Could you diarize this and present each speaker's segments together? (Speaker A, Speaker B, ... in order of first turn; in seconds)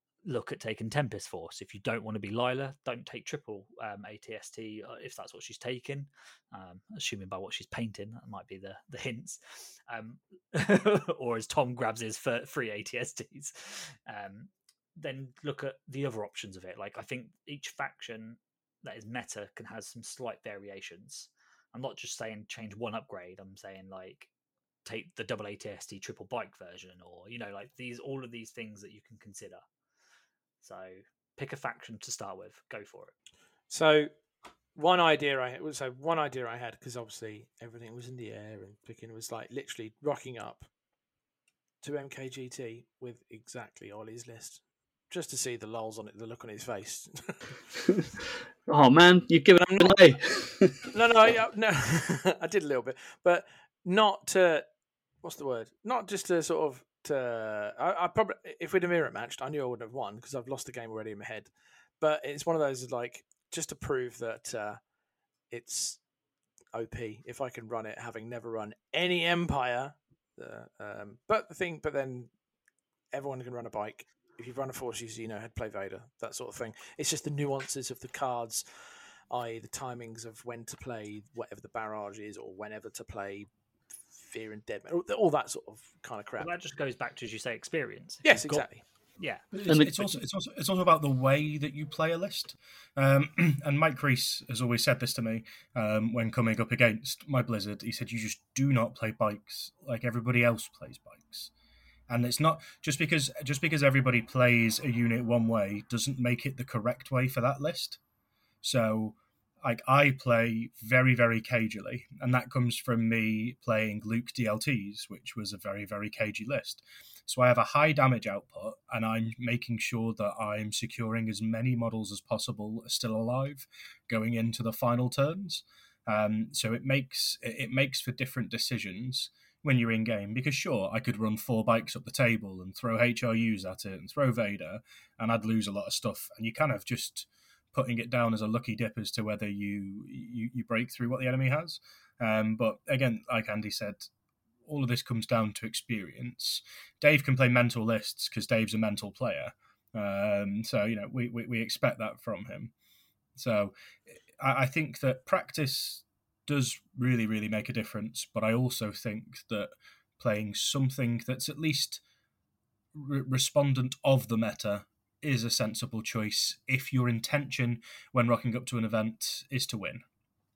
Speaker A: 0.2-24.3, 24.8-29.6, 30.6-33.1, 86.4-88.7, 89.2-89.4
Speaker B: 33.7-34.1, 34.7-40.6, 41.8-47.5, 49.6-50.0, 50.9-54.6, 55.2-64.8, 65.5-66.0, 66.7-72.3, 73.1-83.5, 84.2-86.5, 88.2-88.8
Speaker C: 48.7-50.8, 89.7-90.1
Speaker D: 89.5-101.5, 102.1-108.0, 108.6-144.1, 144.6-152.7, 153.3-153.7, 154.3-162.0, 162.9-170.0